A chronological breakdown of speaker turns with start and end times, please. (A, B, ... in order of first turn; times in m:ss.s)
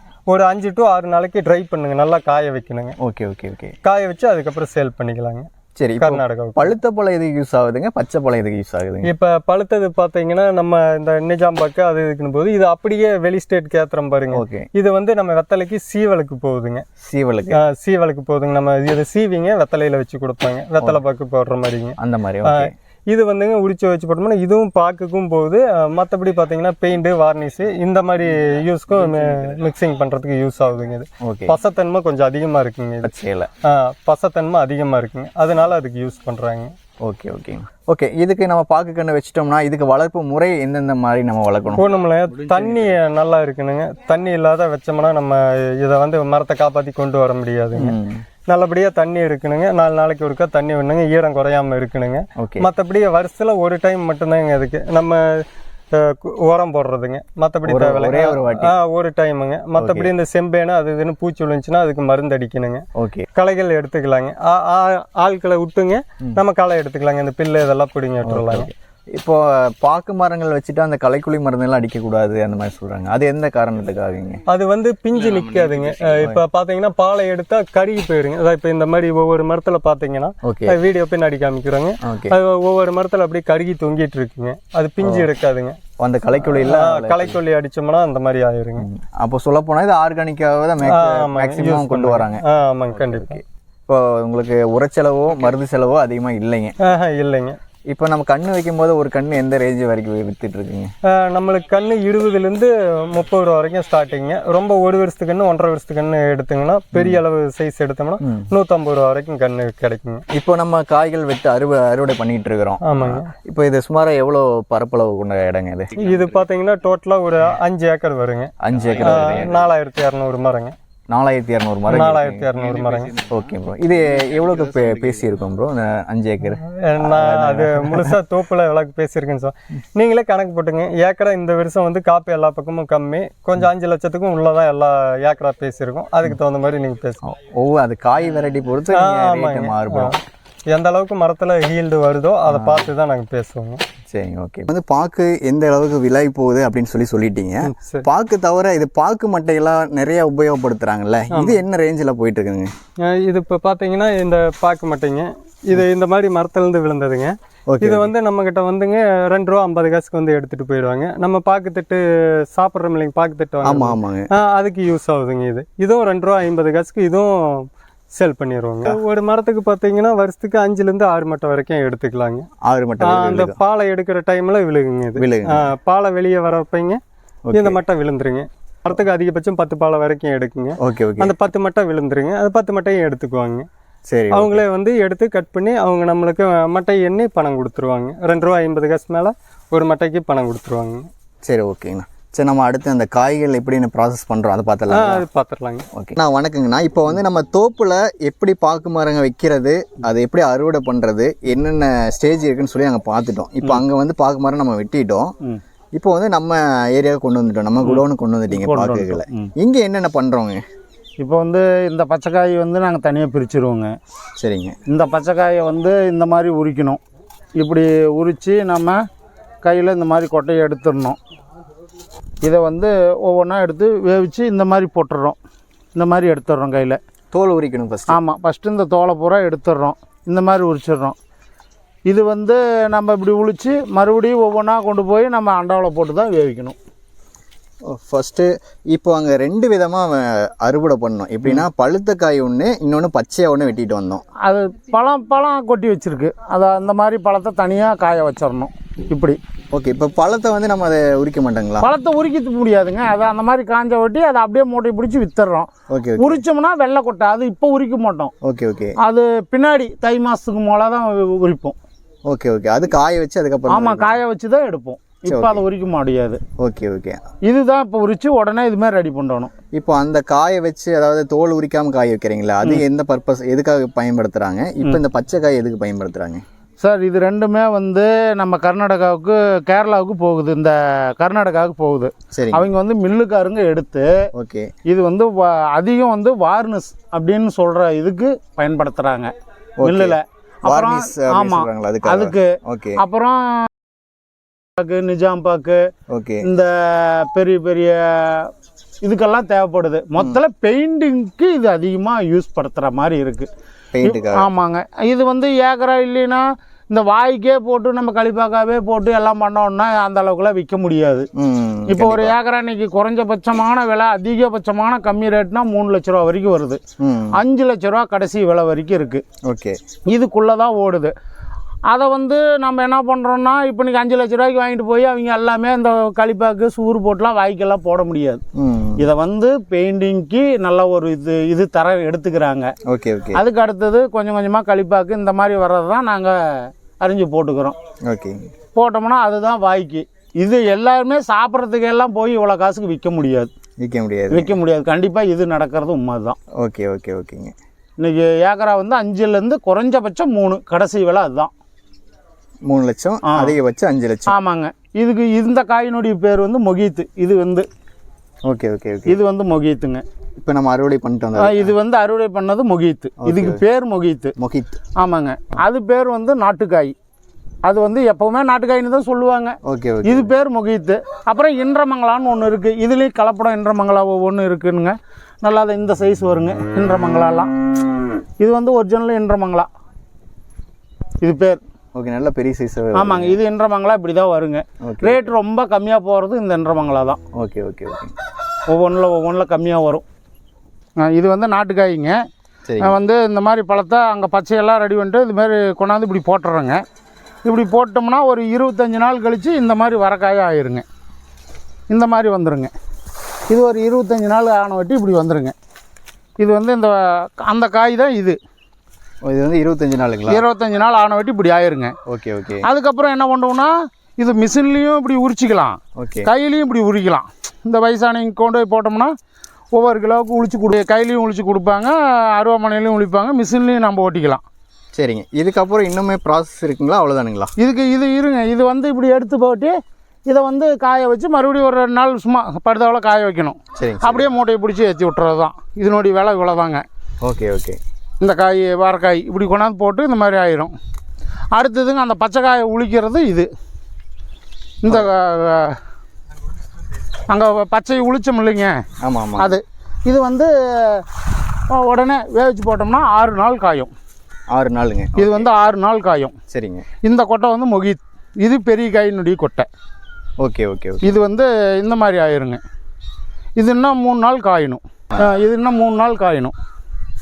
0:00.3-0:03.0 A
0:03.0-0:03.7 B
0:03.8-0:05.5 A
0:05.8-0:09.1 B
0:06.0-0:06.7 A
0:09.0-0:16.8 A
0:14.3-0:14.7 B
0:17.0-0:17.6 B
0:17.5-0:33.1 A
0:22.0-0:22.7 B
0:28.9-0:29.6 B
0:31.2-0:31.6 B
0:33.0-0:33.5 B
0:33.6-0:36.7 A
0:37.0-0:42.9 B
0:41.8-0:47.9 A
0:47.7-0:48.2 B
0:48.5-1:02.8 A
0:52.4-0:52.7 B
0:57.7-0:58.7 B
0:59.8-1:00.1 B
1:03.0-1:03.3 B
1:03.4-1:08.7 A
1:08.2-1:14.4 B
1:14.5-1:25.8 A
1:15.2-1:16.4 B
1:20.4-1:20.8 B
1:22.0-1:22.3 B
1:25.0-1:25.3 B
1:26.0-1:27.4 B
1:26.4-1:28.9 A
1:28.8-1:36.8 B
1:30.8-1:33.4 A
1:36.8-1:37.6 A
1:37.9-1:40.9 B
1:41.1-1:50.2 A
1:46.9-1:47.2 B
1:48.2-1:48.5 B
1:50.3-1:56.3 B
1:52.8-1:53.3 A
1:56.0-2:00.7 A
1:58.6-1:59.7 B
2:01.1-2:02.6 B
2:01.9-2:03.1 A
2:03.1-2:08.2 B
2:06.8-2:17.2 A
2:17.2-2:20.2 B
2:18.9-2:20.1 A
2:20.7-2:23.8 A
2:22.5-2:22.9 B
2:24.1-2:32.7 B
2:27.7-2:28.0 A
2:31.3-2:31.6 A
2:33.0-2:52.4 A
2:37.7-2:38.1 B
2:43.6-2:44.3 B
2:52.6-2:53.6 B
2:53.0-2:57.0 A
2:55.2-2:55.7 B
2:57.4-2:57.8 B
2:57.5-3:03.6 A
3:00.8-3:01.4 B
3:04.1-3:04.6 B
3:04.3-3:11.1 A
3:11.4-3:15.2 B
3:14.9-3:15.8 A
3:15.9-3:25.3 B
3:25.9-3:30.6 B
3:27.8-3:29.5 C
3:31.2-3:33.9 C
3:34.4-3:34.8 B
3:34.9-3:37.0 C
3:37.6-3:39.0 C
3:39.6-3:41.2 C
3:42.4-3:45.4 C
3:45.9-3:47.0 C
3:47.3-3:48.2 B
3:48.1-3:51.2 C
3:52.0-3:56.8 C
3:57.8-4:04.2 B
4:04.4-4:09.4 C
4:09.7-4:11.9 B
4:11.8-4:18.3 C
4:15.9-4:16.4 B
4:18.4-4:19.0 B
4:19.0-4:21.8 C
4:22.3-4:24.2 B
4:23.7-4:26.4 C
4:25.3-4:25.6 B
4:26.6-4:27.2 B
4:27.4-4:29.5 C
4:29.7-4:36.4 B
4:36.8-4:44.1 C
4:42.3-4:42.6 B
4:44.3-4:44.7 B
4:44.8-4:49.3 C
4:49.8-4:53.0 B
4:49.8-4:53.7 C
4:54.8-4:55.8 C
4:56.1-4:56.5 B
4:56.4-4:58.5 C
4:59.0-5:03.5 C
5:03.9-5:04.5 B
5:04.0-5:11.3 C
5:11.3-5:12.3 B
5:11.9-5:16.8 C
5:17.0-5:17.4 B
5:17.3-5:19.2 C
5:19.4-5:19.8 B
5:20.1-5:21.1 C
5:21.9-5:28.4 C
5:28.5-5:29.0 B
5:29.0-5:32.7 C
5:32.9-5:33.4 B
5:33.3-5:37.7 C
5:38.0-5:38.4 B
5:38.7-5:43.5 C
5:43.8-5:44.5 B
5:44.3-5:46.4 C
5:46.6-5:47.5 B
5:48.0-5:51.5 C
5:52.6-5:54.3 B
5:53.3-5:53.5 C
5:54.3-5:57.7 C
5:58.4-5:59.2 B
5:59.1-6:00.0 C
6:00.4-6:01.7 B
6:01.4-6:04.3 C
6:03.2-6:03.6 B
6:04.4-6:04.8 B
6:05.0-6:06.9 C
6:07.6-6:17.5 C
6:09.6-6:10.3 B
6:18.4-6:19.7 C
6:21.2-6:21.6 C
6:21.9-6:23.4 B
6:22.9-6:27.2 C
6:24.8-6:25.3 B
6:27.3-6:28.1 B
6:28.7-6:30.0 C
6:31.0-6:32.2 C
6:32.7-6:33.0 B
6:32.8-6:36.8 C
6:37.4-6:40.8 C
6:41.9-6:42.7 C
6:43.5-6:45.5 C
6:46.4-6:48.4 C
6:49.2-6:50.4 B
6:50.3-6:51.9 C
6:52.1-6:52.7 B
6:52.6-6:59.1 C
6:56.0-6:56.3 B
6:59.7-7:04.4 C
7:04.9-7:07.5 B
7:07.6-7:09.7 C
7:10.3-7:16.8 C
7:13.8-7:14.3 B
7:17.2-7:17.8 B
7:18.2-7:20.7 C
7:21.5-7:23.5 C
7:24.8-7:25.8 C
7:27.3-7:28.8 C
7:29.0-7:29.6 B
7:29.4-7:31.0 C
7:31.7-7:33.9 C
7:34.5-7:35.5 B
7:35.2-7:36.3 C
7:36.5-7:36.8 B
7:37.0-7:39.7 C
7:40.4-7:41.2 B
7:41.0-7:42.6 C
7:43.6-7:46.5 C